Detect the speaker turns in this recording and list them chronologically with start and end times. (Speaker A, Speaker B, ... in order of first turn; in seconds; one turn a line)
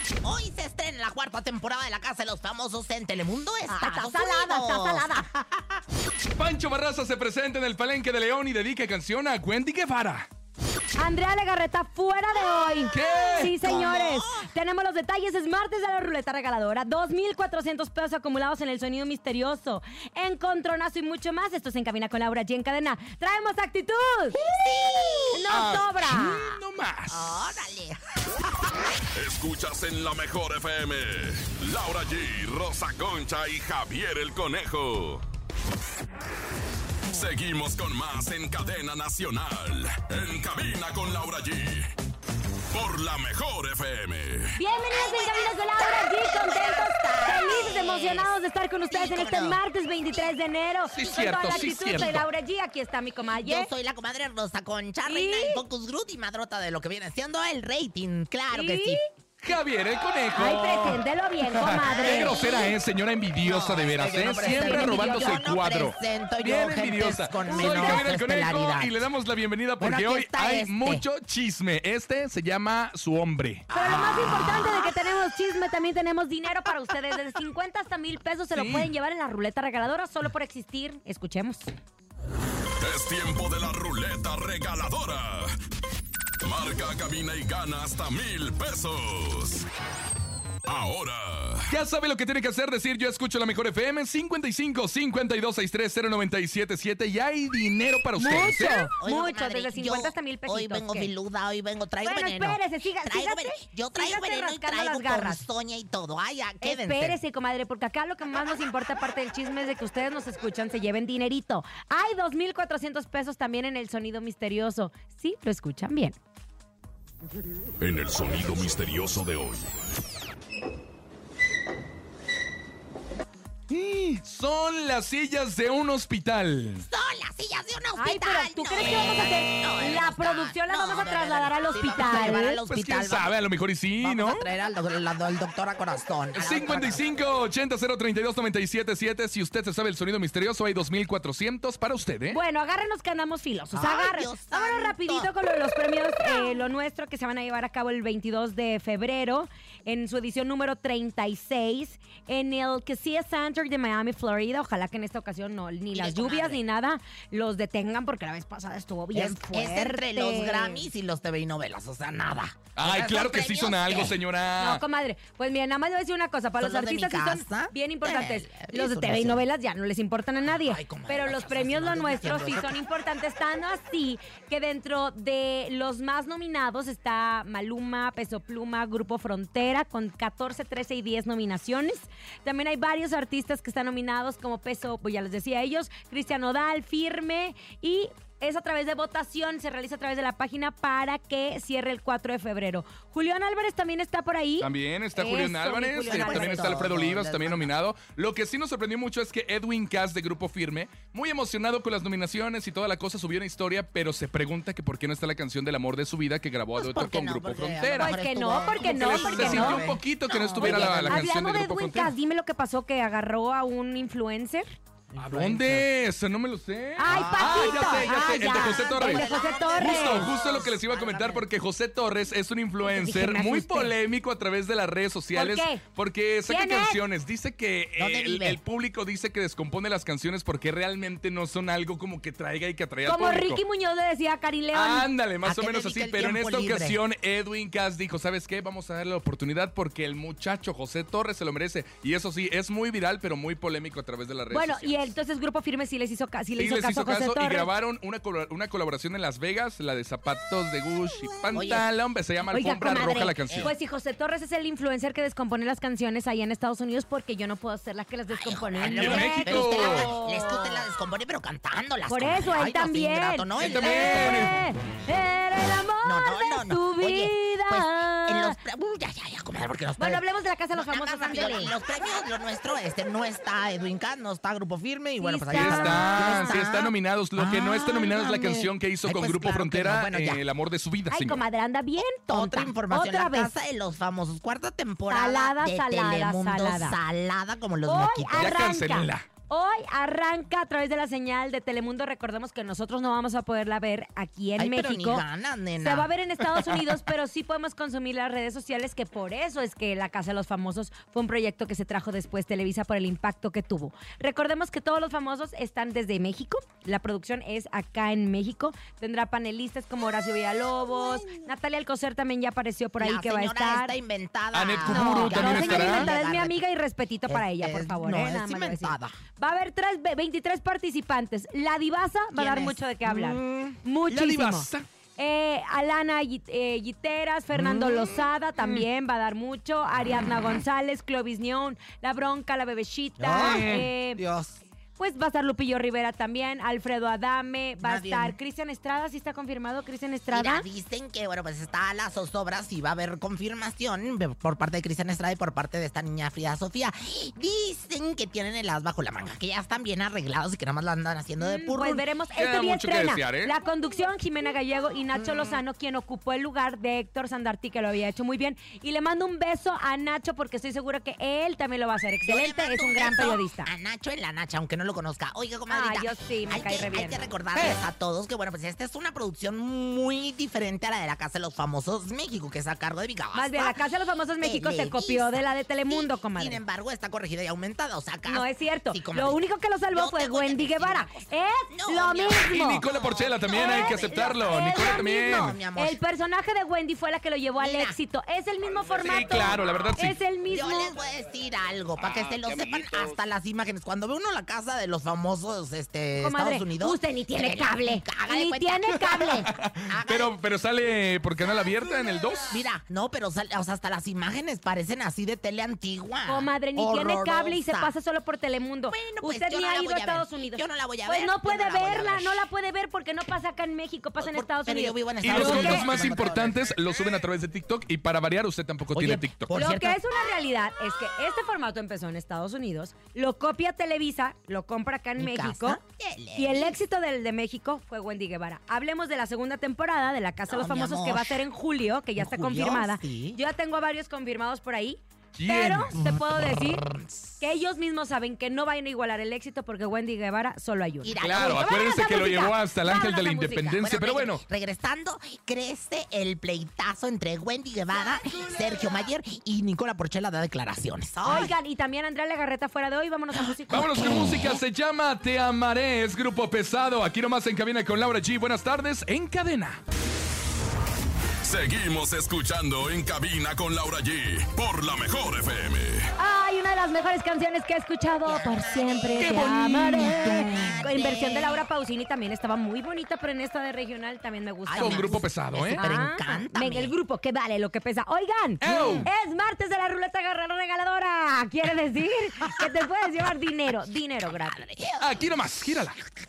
Speaker A: 0.2-5.8
Speaker B: 3.7-5.3
Speaker C: 6.4-10.3
Speaker B: 11.0-24.4
Speaker C: 12.9-13.5
Speaker A: 13.0-14.5
Speaker A: 24.5-25.6
Speaker B: 25.3-26.5
Speaker C: 25.5-27.4
Speaker A: 27.1-28.8
Speaker D: 29.1-35.2
Speaker D: 37.1-41.9
Speaker D: 42.7-44.5
Speaker B: 44.5-53.7
Speaker A: 44.9-49.6
Speaker C: 50.9-52.3
Speaker A: 51.0-51.7
Speaker A: 53.3-59.0
Speaker B: 55.0-55.6
Speaker B: 58.5-59.0
Speaker C: 59.4-73.7
Speaker B: 60.3-62.7
Speaker A: 61.8-62.7
Speaker A: 63.5-69.1
Speaker B: 64.4-65.4
Speaker B: 67.5-68.1
Speaker A: 69.8-71.0
Speaker A: 73.7-74.9
Speaker B: 73.7-81.7
Speaker C: 78.5-78.9
Speaker D: 82.8-85.6
Speaker D: 86.4-89.7
Speaker D: 90.7-91.7
Speaker C: 91.7-98.9
Speaker B: 98.2-101.1
Speaker A: 98.3-107.2
Speaker B: 102.0-105.4
Speaker B: 106.6-116.2
Speaker D: 117.8-119.7
Speaker C: 123.7-126.8
Speaker A: 126.8-133.3
Speaker B: 128.0-132.6
Speaker C: 132.7-134.4
Speaker A: 134.0-137.0
Speaker C: 136.3-142.4
Speaker B: 142.3-160.9
Speaker A: 143.7-145.3
Speaker A: 155.9-156.6
Speaker A: 159.1-164.2
Speaker C: 162.8-164.8
Speaker B: 164.6-196.9
Speaker A: 166.6-169.5
Speaker A: 170.4-172.8
Speaker C: 194.6-208.2
Speaker A: 196.1-197.7
Speaker A: 206.8-211.2
Speaker B: 208.0-209.8
Speaker C: 208.8-212.1
Speaker B: 210.5-214.7
Speaker A: 215.2-215.9
Speaker C: 215.2-233.6
Speaker B: 217.0-220.3
Speaker A: 217.1-221.5
Speaker B: 222.8-223.9
Speaker B: 225.3-225.8
Speaker B: 226.5-227.0
Speaker A: 228.0-228.6
Speaker B: 233.1-235.1
Speaker C: 234.7-245.1
Speaker A: 235.4-237.0
Speaker B: 244.5-247.7
Speaker C: 246.6-253.7
Speaker A: 251.5-251.9
Speaker B: 252.5-260.8
Speaker A: 258.3-264.5
Speaker C: 258.9-260.1
Speaker B: 262.1-268.6
Speaker C: 263.6-264.6
Speaker A: 266.0-280.4
Speaker B: 270.0-271.7
Speaker B: 275.2-276.6
Speaker C: 275.5-281.4
Speaker B: 281.1-283.5
Speaker A: 282.0-288.6
Speaker B: 285.1-287.0
Speaker B: 287.9-295.2
Speaker C: 288.4-289.3
Speaker A: 294.6-296.1
Speaker B: 295.8-313.9
Speaker A: 313.0-316.6
Speaker C: 314.5-316.1
Speaker B: 314.9-334.2
Speaker A: 317.3-319.2
Speaker A: 322.3-323.8
Speaker C: 324.1-324.8
Speaker A: 327.5-328.8
Speaker A: 333.2-334.6
Speaker C: 333.4-333.9
Speaker B: 335.0-340.6
Speaker A: 337.8-338.4
Speaker A: 340.3-352.1
Speaker B: 351.4-363.7
Speaker C: 352.4-353.5
Speaker A: 355.1-355.6
Speaker A: 362.2-373.8
Speaker B: 365.7-367.2
Speaker B: 373.3-376.6
Speaker A: 374.4-386.0
Speaker B: 378.3-382.8
Speaker C: 382.5-385.6
Speaker B: 383.5-390.9
Speaker A: 387.6-388.0
Speaker C: 389.0-390.2
Speaker A: 390.5-400.3
Speaker C: 392.1-392.9
Speaker B: 396.2-399.5
Speaker C: 399.5-402.5
Speaker A: 402.5-407.9
Speaker B: 406.2-416.0
Speaker A: 408.9-412.4
Speaker A: 414.2-416.7
Speaker C: 415.2-419.5
Speaker A: 418.9-420.0
Speaker B: 419.5-425.8
Speaker A: 425.2-426.8
Speaker B: 426.4-436.8
Speaker A: 430.5-431.4
Speaker A: 432.2-433.4
Speaker C: 435.3-436.1
Speaker A: 435.9-437.3
Speaker B: 437.4-443.8
Speaker A: 441.0-441.8
Speaker C: 441.2-444.4
Speaker A: 443.7-451.5
Speaker B: 451.2-453.8
Speaker A: 453.3-454.6
Speaker C: 453.7-459.8
Speaker D: 461.4-466.1
Speaker B: 466.2-484.6
Speaker A: 468.2-471.6
Speaker C: 469.2-470.7
Speaker A: 474.7-476.9
Speaker C: 474.8-475.8
Speaker C: 478.6-479.1
Speaker A: 478.6-479.1
Speaker A: 484.3-485.2
Speaker C: 485.0-486.0